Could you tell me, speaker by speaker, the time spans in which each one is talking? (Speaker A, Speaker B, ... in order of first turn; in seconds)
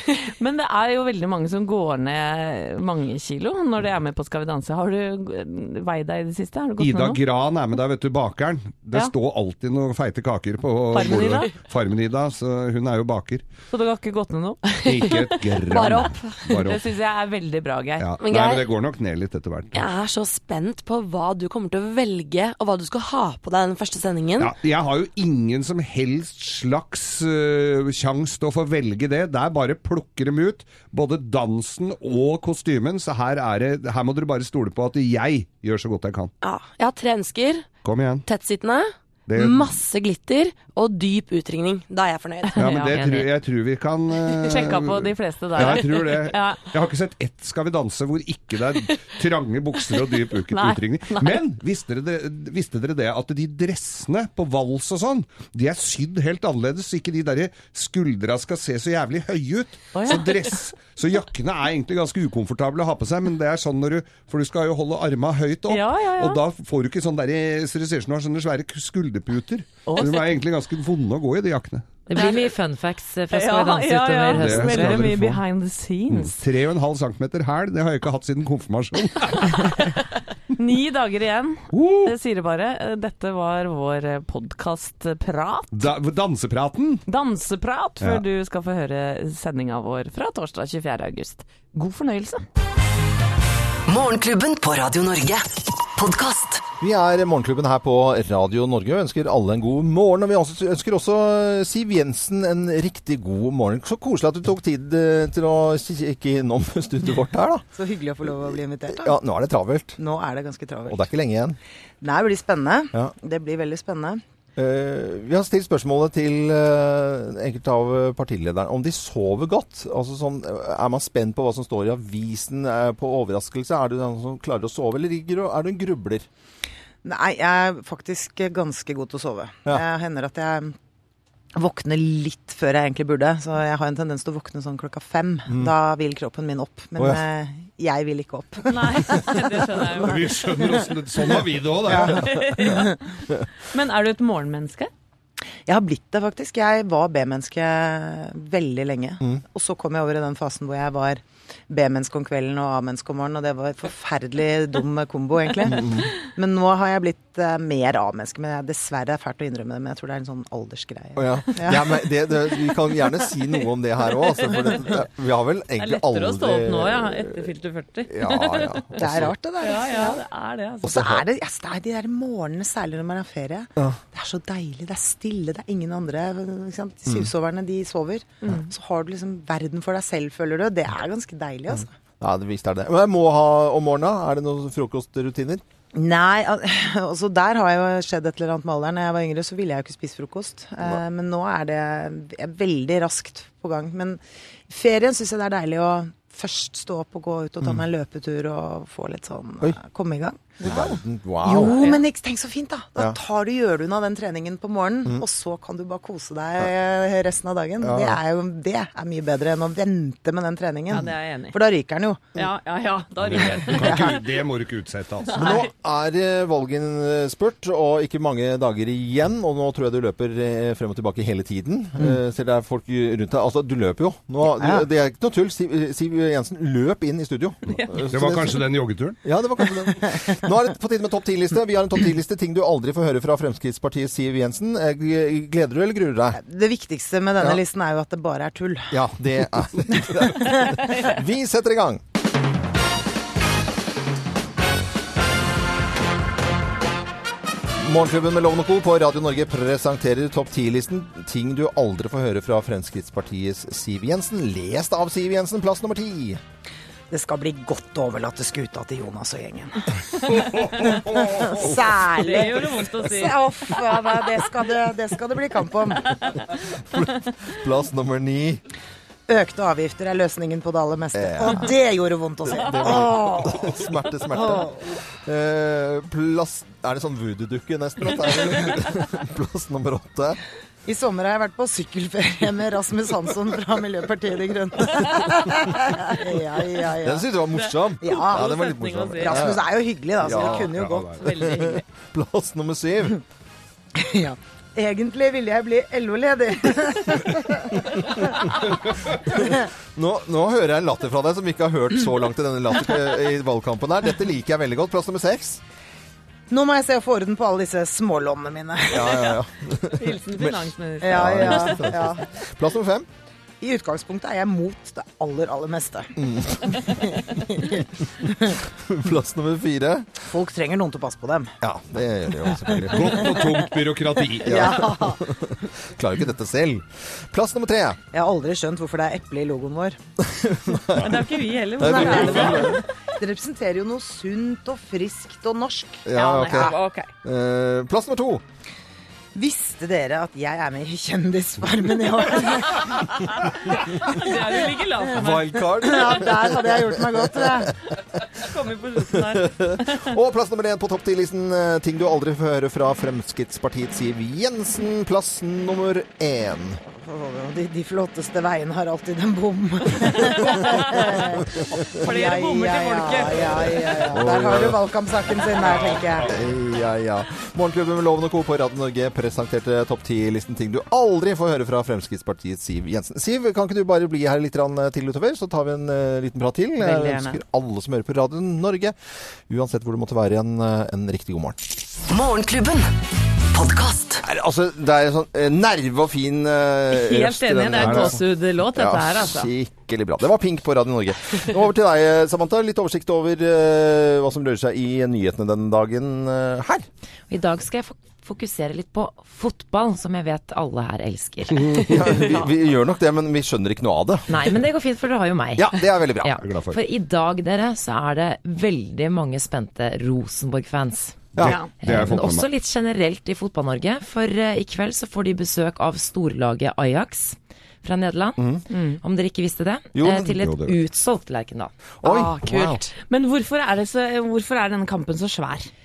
Speaker A: 0.2-7.2, 10.9-11.5, 13.7-15.8, 16.5-18.0, 42.5-43.0, 44.4-46.6, 50.5-51.4, 59.9-60.4, 65.7-66.4, 69.8-70.3, 72.2-72.5, 73.3-76.3, 79.5-80.0, 80.6-85.9, 87.1-92.4, 138.7-140.3, 142.2-143.0, 143.7-144.9, 165.8-168.9, 169.6-171.1, 210.9-211.6, 212.3-214.2, 215.3-215.7, 227.7-228.0, 262.2-263.5, 287.6-289.5, 291.2-291.8, 309.9-311.9, 330.9-332.8, 336.1-337.1, 344.0-346.1, 348.2-350.1, 360.5-361.3, 361.9-364.0, 376.8-377.4, 386.9-389.5, 411.4-411.7, 418.7-419.0, 422.2-425.7
Speaker B: 6.8-13.4, 14.8-16.9, 18.0-19.8, 24.4-36.3, 37.8-38.3, 39.3-39.8, 42.5-71.9, 74.3-75.4, 76.1-79.9, 81.7-82.1, 85.7-87.0, 140.0-142.4, 213.2-215.5, 228.1-229.2, 260.4-261.6, 290.2-291.2, 322.9-324.9, 365.7-366.0, 387.7-388.1, 401.7-401.9, 406.4-406.8, 411.4-412.5, 420.4-420.8
Speaker C: 15.7-16.6, 18.2-18.6, 19.7-24.5, 36.4-37.7, 38.3-42.8, 422.0-422.8
Speaker D: 42.9-43.3, 72.1-75.1, 397.3-402.2, 404.3-418.4, 419.0-421.7
Speaker E: 93.9-96.6, 382.1-382.9, 383.5-384.2
Speaker F: 96.8-107.7, 108.2-110.0, 110.9-111.6, 114.5-126.2, 135.5-135.7, 137.0-137.2, 141.9-142.8, 155.6-156.1, 161.2-167.5, 168.1-169.3, 182.2-185.6, 200.6-202.0, 207.8-208.2, 215.3-228.6, 229.2-236.4, 238.9-242.0, 247.8-256.4, 266.9-268.6, 271.1-271.7, 272.4-280.4, 287.0-289.6, 290.2-290.7, 291.3-293.2, 299.2-305.6, 308.9-313.1, 316.2-316.8, 318.8-320.1, 321.6-323.3, 324.4-328.0, 330.2-332.8, 336.1-338.4, 345.1-347.7, 349.2-356.8, 364.1-364.8, 366.2-378.9, 379.5-381.6, 384.2-396.9, 401.8-404.3, 405.6-406.4, 418.4-418.6, 419.9-420.3, 422.0-422.8
Speaker G: 107.7-109.2, 110.0-111.0, 112.0-114.2, 127.0-130.8, 131.6-139.6, 141.9-142.9, 145.7-162.0, 169.0-170.2, 170.8-181.9, 185.9-212.4, 224.6-224.8, 236.3-239.0, 240.0-240.9, 257.1-266.4, 269.3-273.8, 274.4-274.9, 280.9-287.4, 288.0-291.8, 293.9-298.5, 299.3-299.6, 306.5-309.4, 311.0-312.2, 313.6-318.6, 320.2-321.5, 322.9-323.6, 324.4-325.2, 328.1-330.0, 331.8-336.7, 339.3-344.3, 345.3-347.8, 356.9-366.4